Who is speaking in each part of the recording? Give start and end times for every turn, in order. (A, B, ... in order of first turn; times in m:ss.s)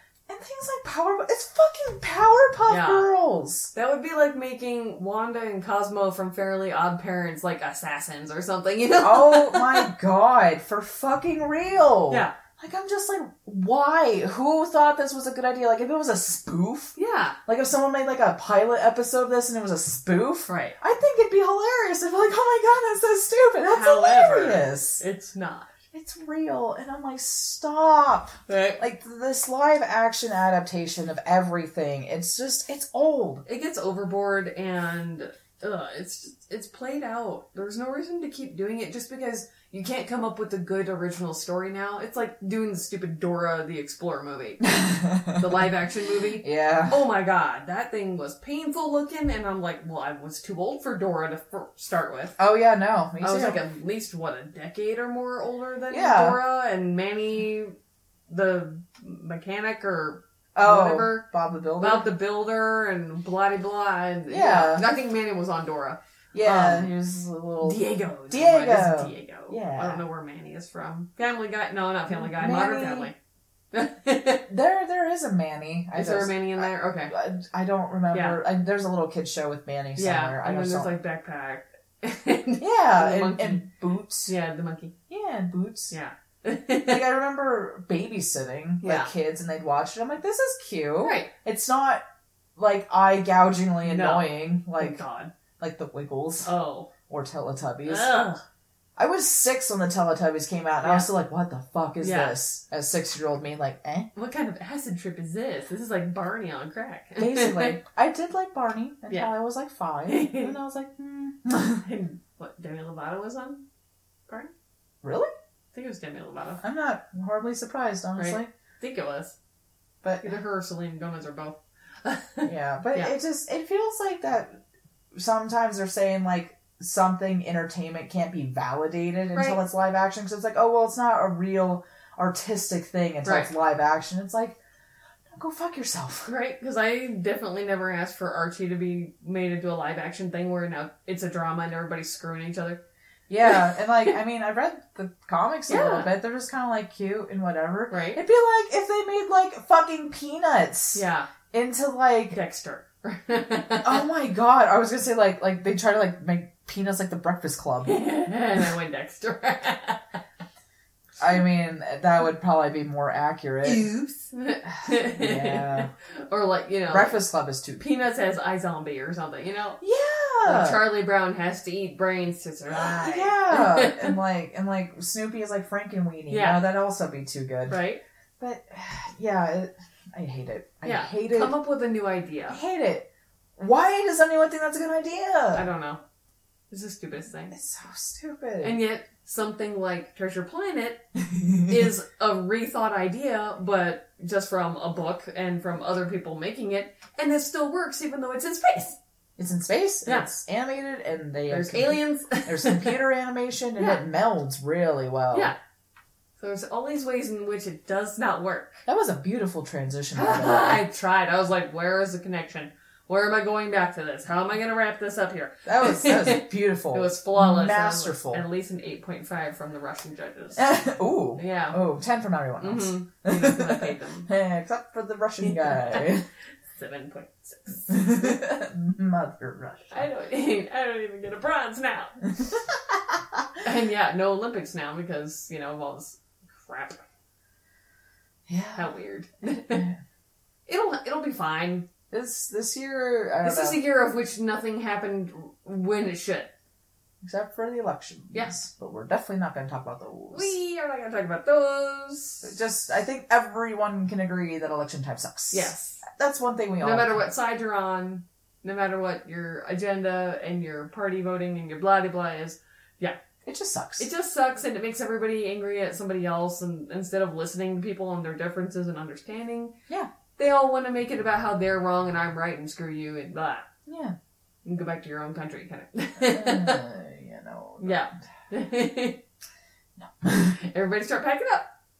0:00.3-0:03.7 A
0:02.7-0:03.1 B
0:03.7-0:09.9 B
0:09.0-0:17.0 A
0:12.1-0:12.3 B
0:17.0-0:17.4 B
0:17.5-0:25.0 A
0:20.5-0:20.8 B
0:23.6-0:25.7 B
0:25.9-0:33.4 A
0:28.5-0:28.8 B
0:33.4-0:44.7 B
0:44.6-0:45.7 A
0:45.4-0:52.4 B
0:46.4-0:47.0 A
0:52.4-0:53.6 A
0:53.2-0:57.8 B
0:55.9-0:56.4 A
0:58.3-1:01.2 B
1:00.5-1:02.1 A
1:01.8-1:06.9 B
1:04.3-1:04.9 A
1:06.3-1:10.0 A
1:07.6-1:13.1 B
1:12.1-1:13.1 A
1:13.7-1:14.4 B
1:14.5-1:20.9 A
1:15.9-1:17.1 B
1:18.1-1:18.4 B
1:20.0-1:23.7 B
1:22.6-1:24.3 A
1:24.2-1:24.9 B
1:25.1-1:25.9 A
1:25.9-1:27.0 B
1:26.8-1:32.0 A
1:28.8-1:29.1 B
1:31.0-1:31.3 B
1:32.6-1:35.0 A
1:33.8-1:35.3 B
1:35.6-1:36.5 A
1:36.4-1:36.9 B
1:37.1-1:38.2 A
1:37.8-1:38.4 B
1:39.0-1:44.1 A
1:40.8-1:41.1 B
1:42.0-1:42.4 B
1:44.1-1:47.8 B
1:47.2-1:51.8 A
1:50.1-1:50.6 B
1:51.8-1:53.6 B
1:55.0-1:55.3 A
1:55.7-1:56.6 B
1:56.6-1:58.5 A
1:58.2-1:59.4 B
2:00.0-2:00.4 A
2:00.2-2:03.1 B
2:02.4-2:04.6 A
2:05.1-2:14.6 A
2:09.3-2:09.6 B
2:13.2-2:13.5 B
2:15.3-2:16.3 A
2:16.2-2:22.8 B
2:23.3-2:32.4 A
2:23.4-2:24.1 B
2:25.7-2:26.1 B
2:27.9-2:28.2 B
2:30.9-2:31.3 B
2:32.3-2:34.0 B
2:33.8-2:38.0 A
2:37.8-2:40.0 B
2:41.2-2:43.8 A
2:43.6-2:47.2 B
2:44.8-2:45.9 A
2:46.9-2:47.8 A
2:47.8-2:49.8 B
2:49.8-2:50.8 A
2:50.4-2:54.2 B
2:52.7-2:57.8 A
2:56.3-2:56.6 B
2:57.7-2:58.0 B
2:58.4-3:01.5 A
3:00.8-3:02.6 B
3:02.5-3:03.0 A
3:03.6-3:05.6 A
3:05.5-3:06.0 B
3:06.7-3:07.6 B
3:07.5-3:08.8 A
3:08.6-3:11.0 B
3:11.3-3:11.9 A
3:11.7-3:19.0 B
3:19.4-3:25.5 A
3:20.0-3:20.3 B
3:21.5-3:23.0 B
3:23.8-3:24.0 B
3:26.4-3:28.8 B
3:28.8-3:30.8 A
3:30.1-3:40.8 B
3:35.6-3:38.4 A
3:40.6-3:46.2 A
3:41.4-3:41.8 B
3:42.6-3:44.3 B
3:45.4-3:48.4 B
3:47.9-3:50.0 A
3:49.9-3:52.2 B
3:52.3-3:53.4 A
3:53.6-3:57.0 B
3:58.5-3:58.9 A
3:58.8-3:59.9 B
3:59.5-4:00.0 A
4:00.7-4:01.9 B
4:02.1-4:03.8 A
4:03.4-4:06.5 B
4:07.2-4:10.5 A
4:10.3-4:12.5 B
4:12.4-4:17.2 A
4:15.5-4:16.0 B
4:16.8-4:23.2 B
4:23.4-4:24.1 A
4:24.0-4:29.7 B
4:30.4-4:33.6 B
4:33.9-4:34.2 A
4:34.6-4:36.8 B
4:36.2-4:38.1 A
4:37.8-4:39.2 B
4:40.0-4:40.6 A
4:40.5-4:41.7 B